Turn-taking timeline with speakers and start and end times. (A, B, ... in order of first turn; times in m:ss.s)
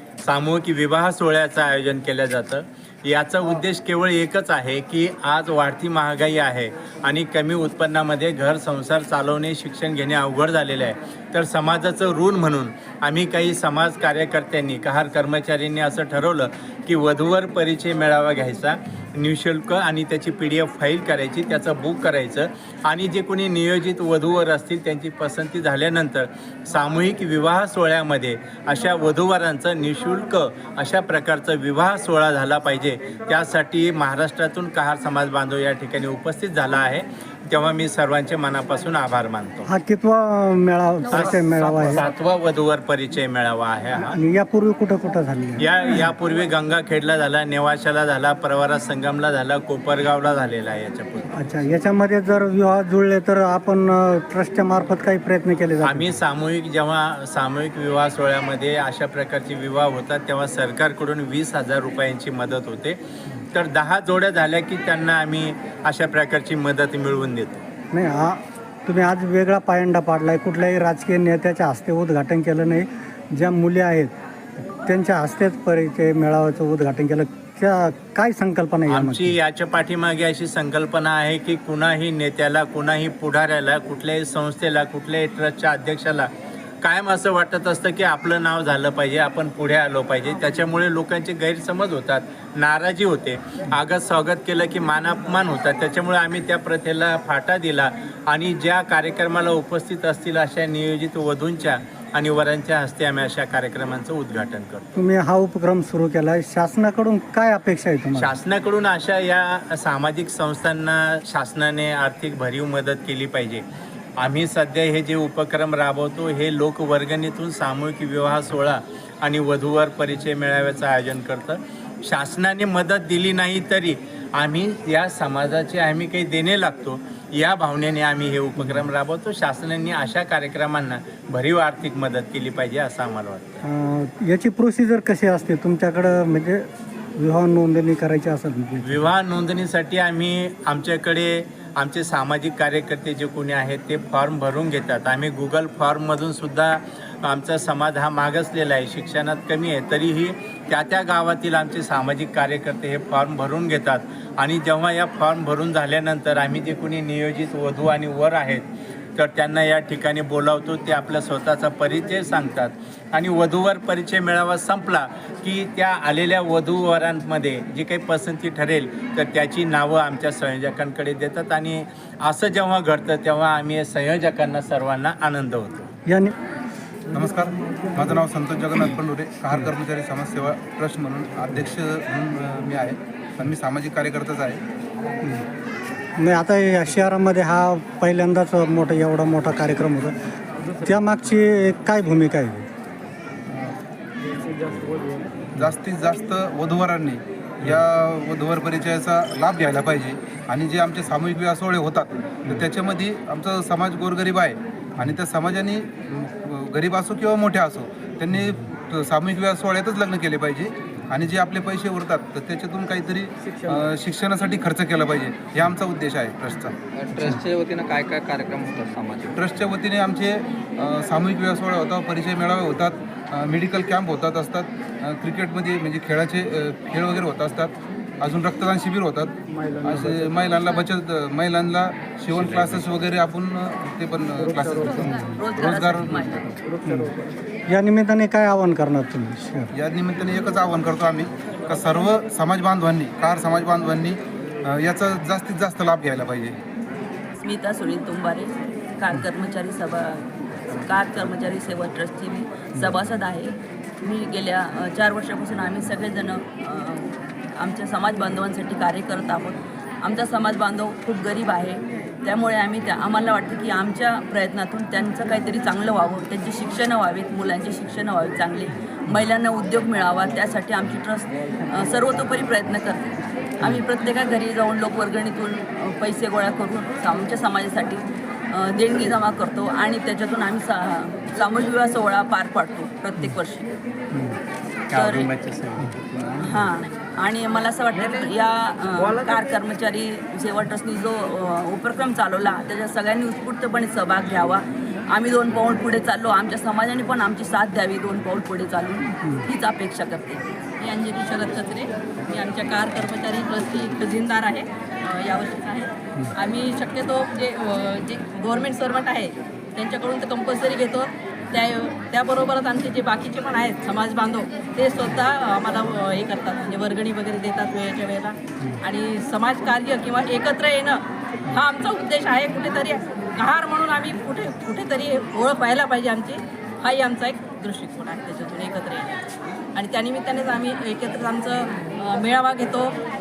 0:00.2-0:39.7 A
0:39.7-0:42.0 B
0:41.1-0:44.2 A
0:44.0-0:46.1 B
0:45.6-0:51.3 A
0:51.4-0:56.1 B
0:55.8-1:03.0 A
1:03.5-1:07.6 A
1:07.9-1:14.1 B
1:14.8-1:19.4 B
1:18.9-1:26.3 A
1:26.8-1:44.8 A
1:45.0-1:48.3 B
1:48.2-1:53.6 A
1:54.2-2:13.6 A
2:13.6-2:16.7 B
2:17.2-2:19.1 B
2:18.8-2:55.9 A
2:56.1-2:56.3 B
2:57.1-3:04.6 C
3:06.2-3:10.1 B
3:10.8-3:12.7 B
3:15.6-3:36.7 C
3:33.5-3:33.8 B
3:36.9-3:39.3 D
3:37.1-3:37.4 B
3:39.3-3:49.3 C
3:49.7-3:50.3 B
3:49.8-3:56.4 C
3:54.8-3:56.4 E
3:57.7-3:59.7 B
3:59.7-4:06.6 C
4:07.4-4:10.2 E
4:10.8-4:17.0 E
4:17.6-4:38.0 E
4:38.5-4:43.7 E
4:44.9-4:45.3 E
4:44.9-4:46.4 D
4:46.4-5:00.4 E
5:00.8-5:29.1 F
5:29.8-5:32.9 F